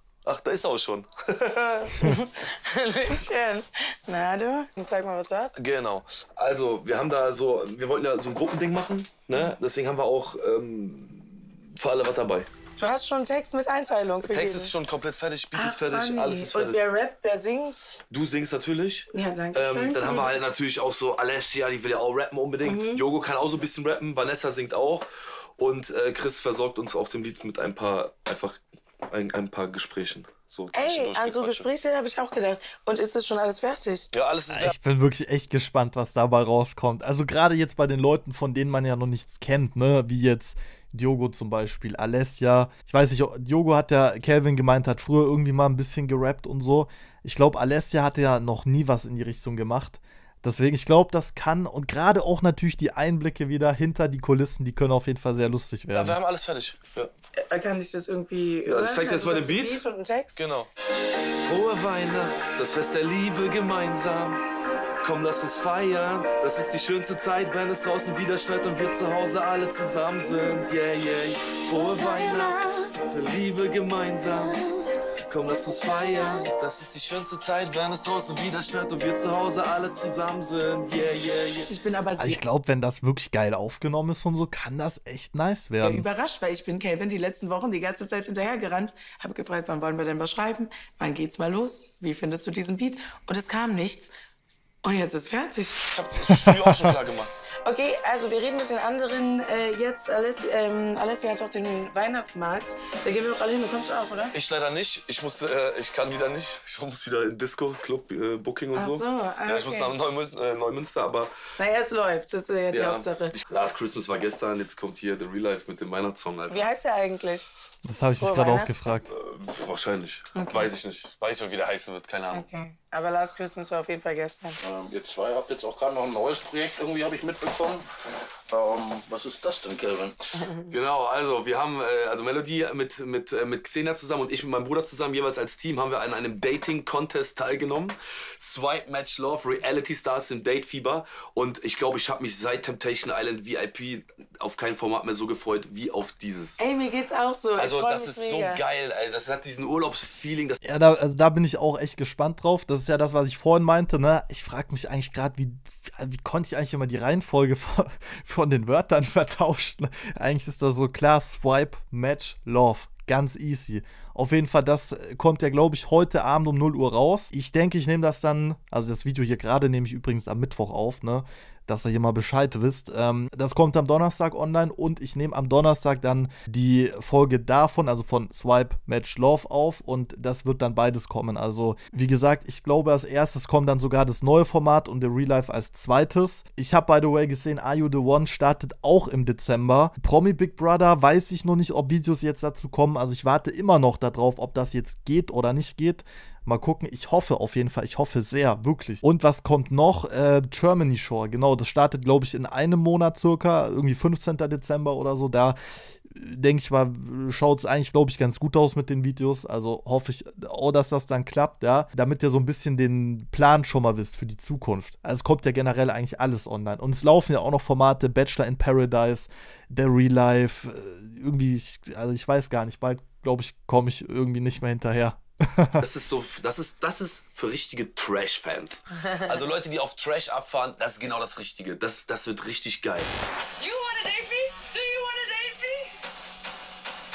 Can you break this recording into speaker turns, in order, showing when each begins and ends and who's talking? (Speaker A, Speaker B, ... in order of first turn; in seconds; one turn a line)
Speaker A: 0.2-2.1
Speaker B: 2.0-5.5
Speaker A: 5.6-12.5
Speaker B: 12.8-14.7
Speaker A: 14.2-16.8
Speaker B: 15.5-17.9
Speaker A: 18.1-25.1
Speaker B: 19.1-20.3
Speaker B: 22.6-23.0
Speaker A: 25.6-31.7
Speaker B: 30.7-34.1
Speaker A: 34.1-34.7
Speaker C: 34.5-56.2
Speaker A: 55.9-57.1
Speaker B: 57.5-60.4
Speaker A: 58.6-59.8
Speaker A: 60.4-60.7
Speaker A: 61.5-64.4
Speaker A: 65.0-74.6
Speaker A: 75.3-81.7
Speaker B: 81.6-82.4
Speaker C: 82.2-86.1
Speaker B: 85.8-94.1
Speaker B: 94.8-96.9
Speaker A: 95.9-97.3
Speaker B: 97.6-104.3
Speaker A: 104.3-111.3
Speaker B: 108.7-110.0
Speaker B: 111.6-113.4
Speaker A: 112.7-116.7
Speaker B: 116.5-117.5
Speaker C: 117.8-119.1
Speaker B: 118.2-118.7
Speaker A: 119.1-122.5
Speaker B: 120.3-120.7
Speaker B: 122.3-124.6
Speaker D: 124.7-127.8
Speaker D: 128.5-130.1
Speaker A: 130.7-146.6
Speaker B: 146.6-148.6
Speaker A: 147.6-150.6
Speaker C: 150.6-205.6
Speaker C: 206.1-225.8
Speaker A: 225.8-233.1
Speaker B: 234.4-234.7